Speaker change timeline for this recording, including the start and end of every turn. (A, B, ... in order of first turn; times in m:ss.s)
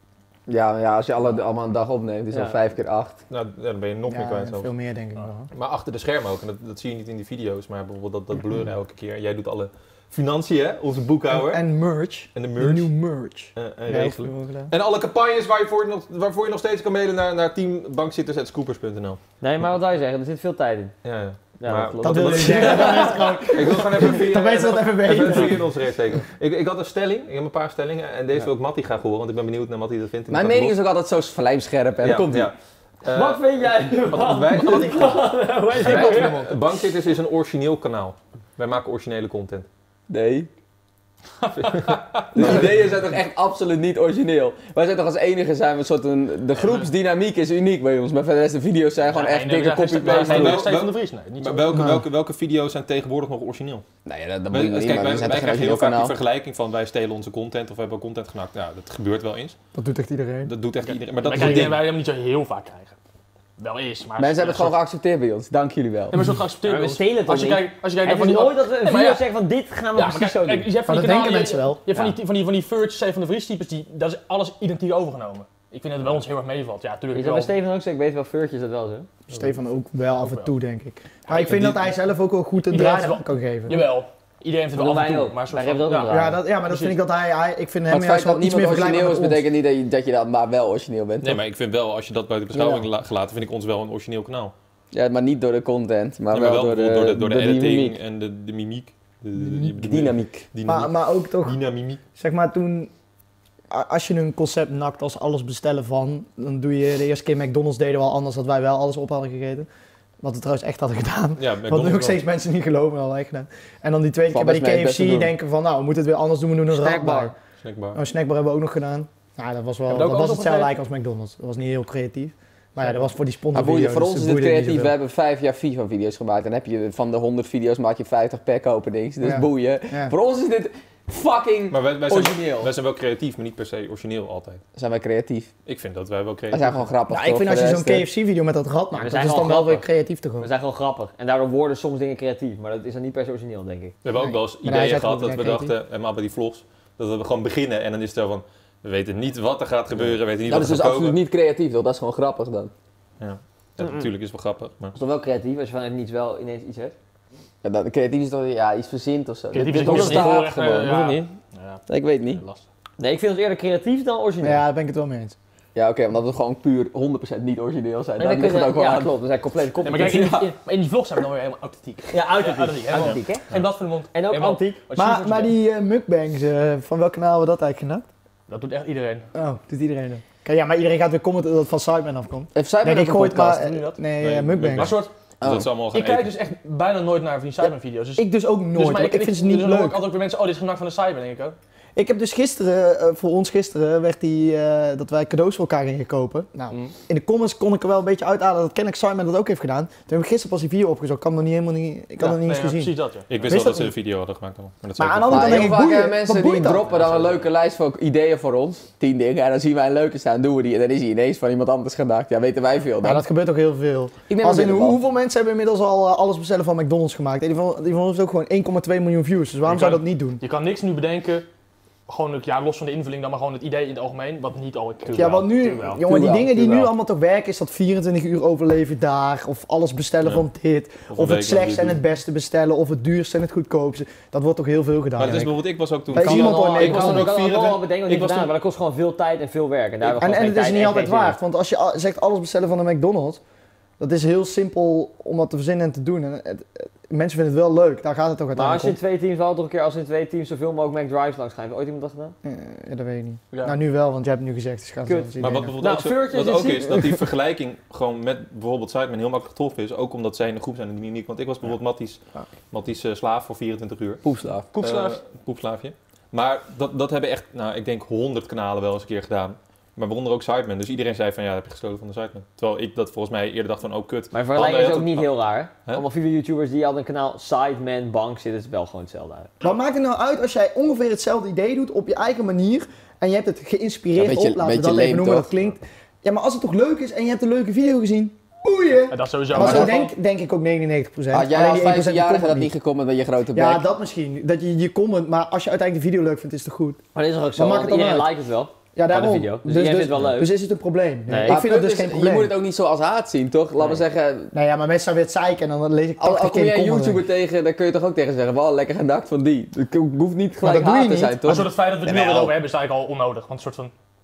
0:00.5-0:03.2 A
0:02.3-0:02.6 B
0:03.3-0:04.7 C
0:04.1-0:05.5 D
0:05.5-0:11.6 C
0:11.3-0:14.7 D
0:12.4-0:12.9 C
0:13.6-0:19.2 C
0:19.4-0:21.0 B
0:21.0-0:30.8 C
0:21.6-0:23.0 B
0:22.0-0:25.7 D
0:22.3-0:23.1 A
0:30.3-0:32.5 A
0:32.0-0:39.7 C
0:33.1-0:36.5 B
0:40.1-0:40.5 A
0:41.4-0:42.6 E
0:41.6-0:42.7 C
0:42.3-0:50.7 A
0:46.6-0:46.9 E
0:49.0-0:51.8 E
0:50.0-0:53.8 C
0:51.7-0:52.1 D
0:54.1-0:56.2 A
0:54.5-0:59.6 C
0:59.7-1:00.5 D
1:00.5-1:01.8 C
1:01.2-1:03.0 E
1:01.4-1:01.7 D
1:03.6-1:04.8 E
1:04.2-1:06.2 A
1:06.1-1:09.3 E
1:06.6-1:10.7 B
1:10.0-1:17.5 E
1:10.9-1:11.8 D
1:11.9-1:12.2 B
1:17.1-1:19.1 B
1:19.3-1:23.9 D
1:20.1-1:20.5 E
1:21.3-1:21.8 C
1:21.3-1:21.7 E
1:22.7-1:27.0 E
1:24.7-1:26.4 B
1:26.1-1:29.4 D
1:27.9-1:31.4 A
1:31.2-1:34.5 C
1:32.5-1:32.8 A
1:34.9-1:38.0 A
1:36.3-1:42.0 C
1:39.4-1:40.5 A
1:40.7-1:41.6 D
1:42.2-1:42.9 D
1:43.7-1:49.7 D
1:50.2-1:57.3 D
1:51.4-1:52.2 C
1:54.3-1:55.3 A
1:56.7-1:57.3 B
1:57.6-1:58.0 C
1:58.0-2:04.9 D
1:59.9-2:00.7 E
2:03.5-2:12.7 A
2:09.2-2:10.1 D
2:11.7-2:14.6 C
2:14.8-2:15.5 A
2:15.7-2:16.8 C
2:16.5-2:18.1 A
2:17.1-2:20.5 D
2:18.9-2:19.8 B
2:20.4-2:24.0 B
2:24.0-2:31.2 C
2:24.2-2:25.8 D
2:30.1-2:32.7 A
2:33.2-2:35.0 C
2:33.8-2:34.1 B
2:35.0-2:37.0 B
2:37.6-2:41.3 A
2:39.5-2:42.6 E
2:39.8-2:40.4 B
2:41.9-2:42.4 A
2:43.0-2:44.6 B
2:44.4-2:45.4 D
2:45.8-2:49.2 A
2:48.2-2:50.4 B
2:49.8-2:55.5 E
2:49.9-2:50.5 A
2:52.1-2:53.5 B
2:54.1-2:54.8 B
2:55.0-2:58.1 D
2:58.5-2:59.3 E
2:59.3-3:05.0 D
3:02.6-3:03.7 A
3:03.6-3:04.0 E
3:04.2-3:06.3 C
3:04.7-3:05.1 E
3:05.4-3:05.7 A
3:05.9-3:11.6 E
3:07.6-3:10.0 D
3:12.0-3:23.9 D
3:22.2-3:23.3 E
3:23.3-3:25.7 C
3:25.0-3:26.9 D
3:25.3-3:33.2 A
3:26.9-3:27.5 E
3:33.0-3:40.4 D
3:34.3-3:35.0 A
3:39.6-3:41.5 E
3:42.1-3:46.0 E
3:45.1-3:55.6 D
3:46.0-3:46.9 A
3:51.1-3:52.0 C
3:55.2-3:58.5 C
3:56.1-3:57.3 D
3:56.2-4:01.4 B
4:00.0-4:03.4 D
4:04.0-4:09.0 D
4:08.6-4:12.4 B
4:12.4-4:15.7 D
4:13.5-4:13.8 E
4:15.1-4:17.2 B
4:15.4-4:22.2 C
4:22.7-4:24.2 C
4:24.2-4:24.7 A
4:24.7-4:25.2 E
4:24.8-4:35.3 C
4:34.3-4:39.5 B
4:39.6-4:52.7 D
4:44.2-4:45.5 A
4:49.1-4:50.1 E
4:49.5-4:50.0 A
4:51.3-4:53.8 A
4:53.5-4:57.0 D
4:57.2-5:00.5 B
4:57.6-4:58.3 D
4:59.0-5:02.6 D
5:01.3-5:01.6 B
5:01.5-5:04.5 A
5:04.5-5:07.2 D
5:06.2-5:12.5 A
5:10.6-5:11.6 D
5:11.4-5:13.9 E